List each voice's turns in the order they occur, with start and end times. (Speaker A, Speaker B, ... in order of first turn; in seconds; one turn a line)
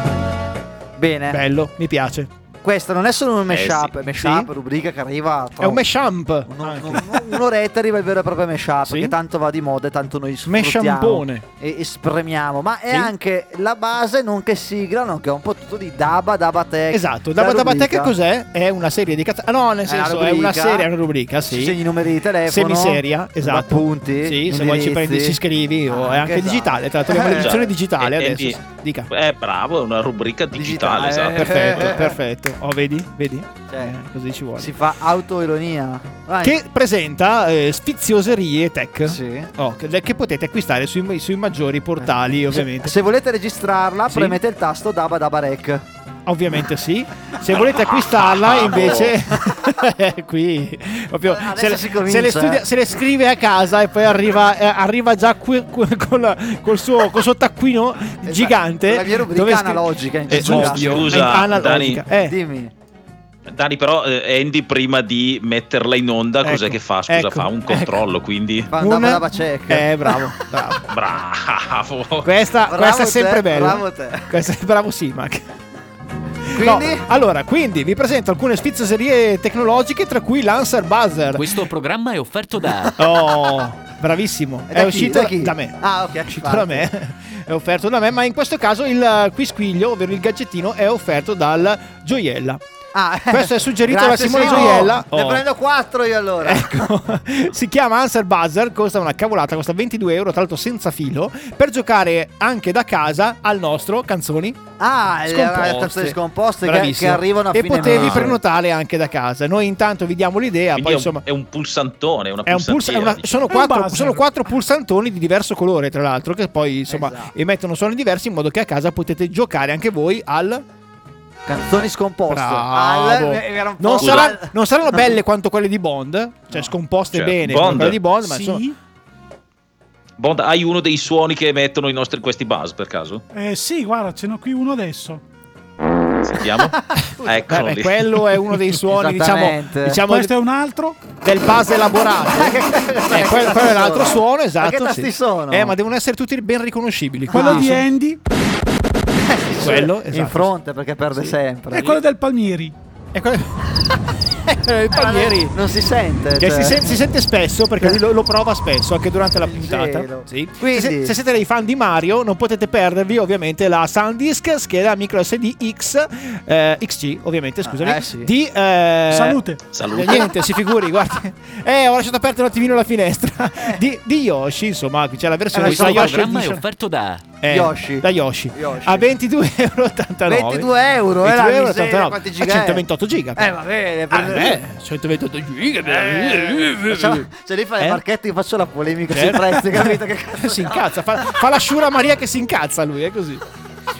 Speaker A: 1.0-1.4
Speaker B: 1.3-2.3
Speaker A: 2.6-5.8
Speaker C: 3.5-3.9
Speaker B: 4.1-4.5
Speaker B: 5.6-7.4
Speaker A: 6.5-18.1
Speaker B: 8.8-9.1
Speaker B: 10.4-11.4
Speaker B: 16.9-21.8
Speaker A: 19.9-20.9
Speaker A: 21.5-27.6
Speaker B: 22.5-29.1
Speaker C: 27.3-28.6
Speaker C: 29.1-31.9
Speaker A: 30.5-32.1
Speaker B: 31.4-34.7
Speaker A: 33.7-33.9
Speaker A: 34.6-36.5
Speaker B: 36.4-42.9
Speaker A: 39.0-39.5
Speaker A: 42.0-45.8
Speaker B: 44.1-44.4
Speaker B: 46.2-62.3
Speaker C: 47.6-49.1
Speaker A: 51.2-52.6
Speaker A: 58.2-61.2
Speaker C: 60.3-62.0
Speaker A: 62.2-62.7
Speaker C: 63.5-68.7
Speaker B: 66.4-68.0
Speaker A: 68.7-70.1
Speaker B: 68.7-70.8
Speaker C: 70.9-72.3
Speaker B: 72.2-75.4
Speaker A: 72.7-74.3
Speaker B: 76.5-81.5
Speaker A: 76.5-77.0
Speaker D: 81.3-83.0
Speaker B: 83.0-92.6
Speaker A: 84.7-86.9
Speaker A: 92.9-96.8
Speaker B: 93.3-95.4
Speaker B: 96.4-104.6
Speaker A: 104.8-108.4
Speaker B: 105.3-111.2
Speaker C: 110.8-113.5
Speaker B: 112.5-120.6
Speaker E: 113.5-114.3
Speaker A: 116.9-117.3
Speaker A: 121.5-125.0
Speaker B: 122.3-128.7
Speaker C: 124.0-124.3
Speaker C: 127.1-128.0
Speaker E: 128.2-128.7
Speaker C: 130.2-133.2
Speaker E: 133.3-135.2
Speaker C: 136.2-138.4
Speaker B: 137.2-140.3
Speaker A: 138.9-140.0
Speaker E: 140.1-141.0
Speaker B: 141.2-147.8
Speaker A: 142.3-145.7
Speaker E: 147.3-148.2
Speaker A: 147.3-147.7
Speaker A: 149.2-151.9
Speaker B: 149.6-150.5
Speaker E: 151.7-152.7
Speaker B: 153.1-153.6
Speaker B: 154.4-155.6
Speaker A: 154.9-157.0
Speaker B: 156.4-169.4
Speaker A: 159.5-161.2
Speaker A: 167.6-168.3
Speaker E: 169.1-169.6
Speaker C: 169.7-170.3
Speaker B: 169.9-176.6
Speaker A: 175.5-176.3
Speaker D: 175.6-177.3
Speaker B: 177.4-180.7
Speaker A: 177.5-179.1
Speaker A: 180.3-182.8
Speaker B: 181.2-183.6
Speaker A: 183.3-184.6
Speaker B: 184.1-187.2
Speaker A: 185.8-191.3
Speaker B: 189.1-193.4